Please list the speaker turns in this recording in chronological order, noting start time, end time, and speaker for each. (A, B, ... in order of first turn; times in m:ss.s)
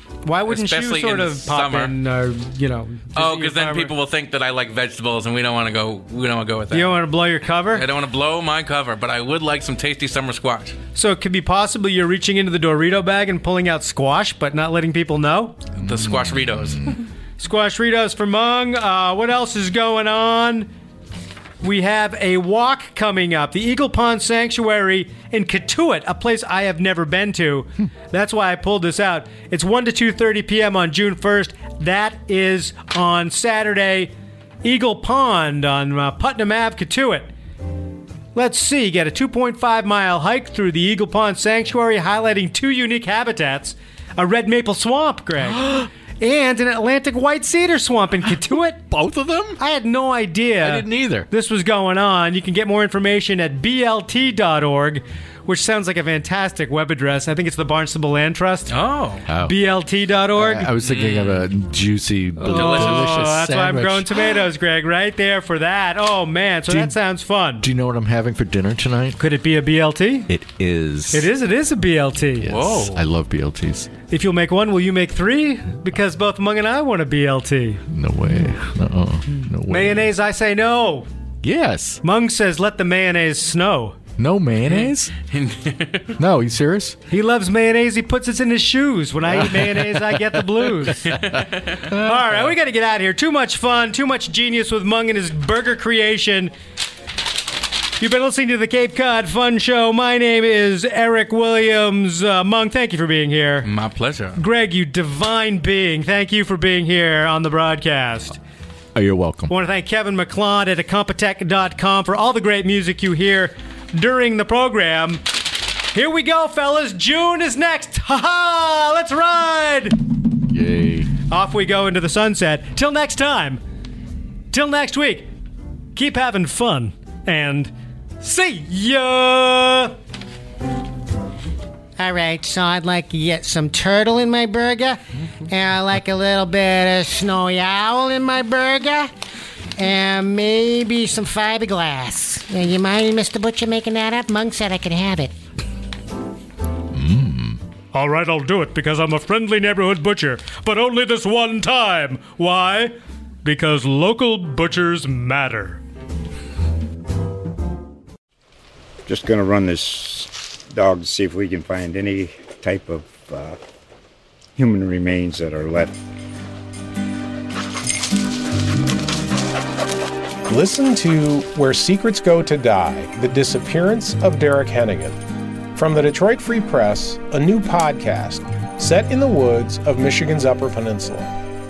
0:00.2-0:03.9 A
0:00.5-0:01.9 B
0:03.2-0:07.0 B
0:06.7-0:07.9 A
0:07.7-0:10.8 B
0:11.0-0:15.6 A
0:15.8-0:17.0 B
0:15.8-0:17.0 C
0:17.4-0:20.7 A
0:21.6-0:34.1 A
0:34.6-0:37.3 A
0:38.4-0:48.8 A
0:45.4-0:45.9 C
0:48.9-0:49.6 C
0:49.6-0:58.8 A
0:50.6-0:51.3 C
0:58.7-0:59.3 B
0:59.3-0:59.6 C
0:59.4-1:00.7 A
1:00.3-1:04.3 C
1:00.8-1:01.5 B
1:02.4-1:07.7 A
1:02.5-1:03.2 B
1:06.7-1:07.0 C
1:07.6-1:09.2 C
1:09.2-1:10.3 A
1:10.3-1:11.3 C
1:11.1-1:12.5 A
1:12.4-1:13.9 C
1:12.4-1:13.0 B
1:14.1-1:17.8 A
1:17.9-1:20.1 C
1:19.7-1:21.1 A
1:21.4-1:22.0 C
1:22.0-1:24.0 A
1:24.2-1:25.1 C
1:24.7-1:26.2 B
1:26.2-1:27.0 C
1:27.1-1:31.2 A
1:29.3-1:32.4 C
1:31.0-1:31.9 B
1:31.9-1:36.5 A
1:38.0-1:43.7 A
1:43.6-1:44.4 B
1:44.4-1:48.4 A
1:49.0-1:49.5 C
1:49.5-1:55.4 A
1:55.9-2:00.0 A
2:00.5-2:01.1 C
2:01.3-2:03.6 A
2:04.5-2:05.3 A
2:06.0-2:10.0 A
2:12.0-2:19.1 D
2:19.8-2:25.4 D
2:26.9-2:27.6 C
2:27.9-2:35.8 A
2:39.1-2:43.6 E
2:44.6-2:46.0 E
2:50.5-2:55.2 F
2:55.7-3:01.4 F